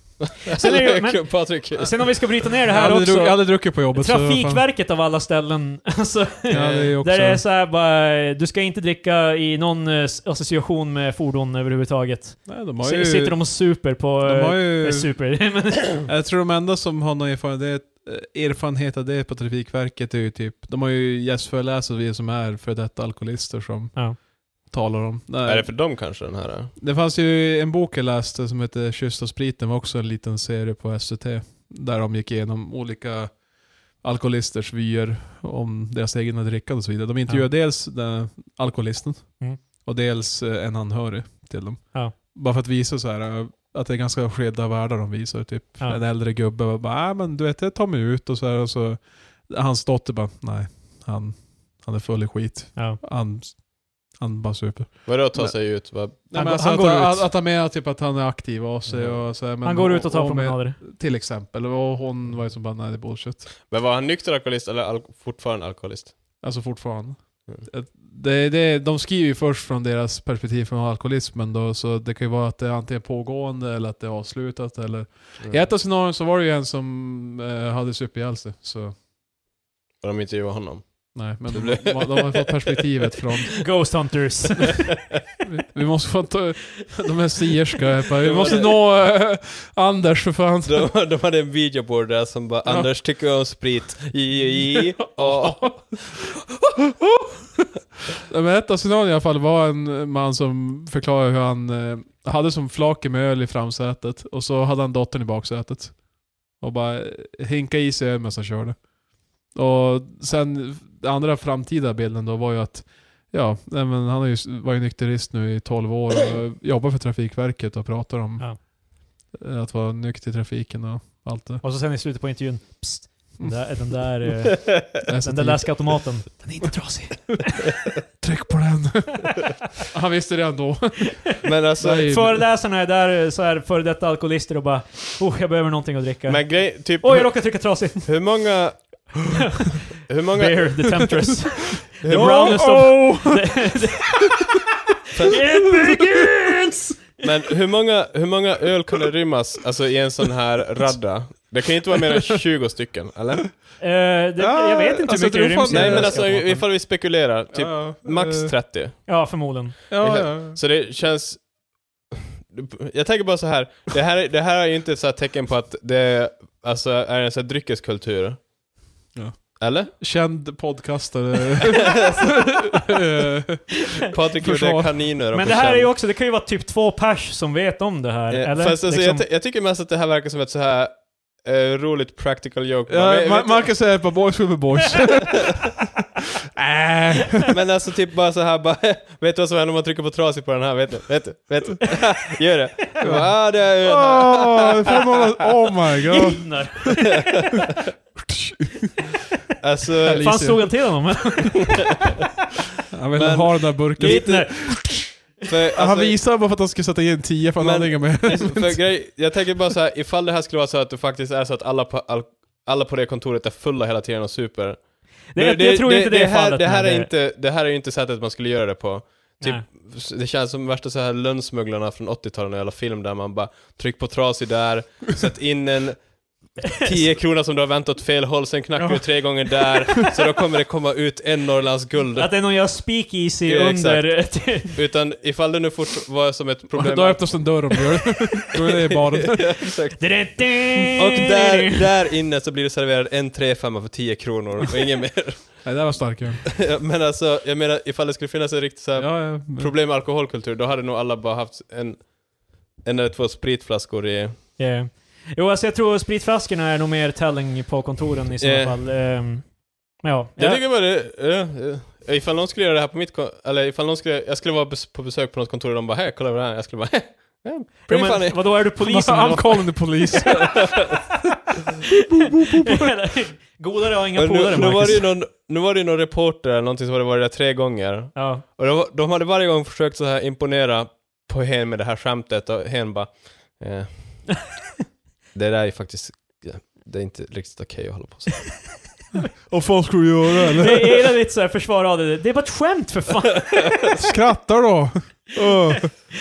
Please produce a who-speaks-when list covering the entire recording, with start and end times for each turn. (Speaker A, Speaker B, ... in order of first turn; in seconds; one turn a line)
Speaker A: 0.5-2.5
Speaker B: 0.6-16.1
Speaker C: 2.7-4.7
Speaker A: 6.5-7.0
Speaker C: 6.5-7.4
Speaker C: 12.5-25.8
Speaker A: 25.4-26.7
Speaker C: 26.8-63.5
Speaker A: 55.1-56.2
Speaker B: 56.3-57.3
Speaker A: 58.9-59.3
Speaker B: 59.6-60.8
Speaker A: 63.6-66.3
Speaker C: 66.4-79.0
Speaker A: 75.4-75.7
Speaker A: 80.0-82.8
Speaker C: 81.1-83.7
Speaker B: 83.6-85.0
Speaker C: 85.4-90.9
Speaker A: 88.2-88.8
Speaker A: 90.7-96.3
Speaker C: 92.7-92.9
Speaker C: 95.2-96.0
Speaker C: 98.2-108.9
Speaker C: 109.4-121.6
Speaker B: 121.6-127.7
Speaker C: 123.4-124.0
Speaker C: 125.0-126.2
Speaker C: 128.2-129.3
Speaker C: 129.9-132.5
Speaker A: 131.4-132.2
Speaker B: 132.0-138.2
Speaker A: 136.3-139.3
Speaker B: 139.4-144.5
Speaker A: 140.1-141.2
Speaker A: 142.0-142.8
Speaker C: 142.1-143.7
Speaker A: 145.2-145.4
Speaker B: 145.2-146.9
Speaker C: 145.8-146.2
Speaker A: 147.2-153.6
Speaker B: 153.8-156.6
Speaker C: 154.4-156.5
Speaker A: 155.7-159.1
Speaker C: 157.5-158.5
Speaker B: 159.1-159.8
Speaker A: 159.9-161.5
Speaker C: 159.9-160.6
Speaker A: 162.5-168.4
Speaker C: 169.1-175.0
Speaker A: 169.6-169.9
Speaker A: 174.1-176.0
Speaker B: 175.3-179.2
Speaker A: 178.3-183.8
Speaker C: 182.9-185.8
Speaker C: 186.6-187.5
Speaker A: 187.5-195.1
Speaker C: 193.0-197.1
Speaker B: 196.1-197.3
Speaker A: 197.1-197.7
Speaker C: 198.2-199.0
Speaker A: 199.6-200.6
Speaker C: 200.0-201.1
Speaker B: 200.1-202.0
Speaker C: 202.9-205.1
Speaker A: 203.2-206.2
Speaker B: 204.0-205.3
Speaker C: 205.8-208.8
Speaker A: 207.6-232.5
Speaker B: 215.3-217.1
Speaker C: 228.8-230.1
Speaker B: 232.2-234.8
Speaker A: 233.5-237.7
Speaker C: 236.7-239.7
Speaker A: 238.6-245.8
Speaker B: 240.0-241.9
Speaker C: 245.6-246.5
Speaker A: 246.6-254.4
Speaker C: 249.0-249.7
Speaker B: 254.6-260.6
Speaker A: 258.4-258.8
Speaker A: 260.4-268.7
Speaker B: 267.9-270.6
Speaker C: 268.8-270.8
Speaker A: 270.3-270.6
Speaker C: 272.1-272.9
Speaker B: 272.5-275.1
Speaker A: 274.2-284.6
Speaker B: 278.1-278.4
Speaker A: 285.3-288.9
Speaker C: 289.5-291.1
Speaker B: 290.6-293.7
Speaker C: 293.9-295.9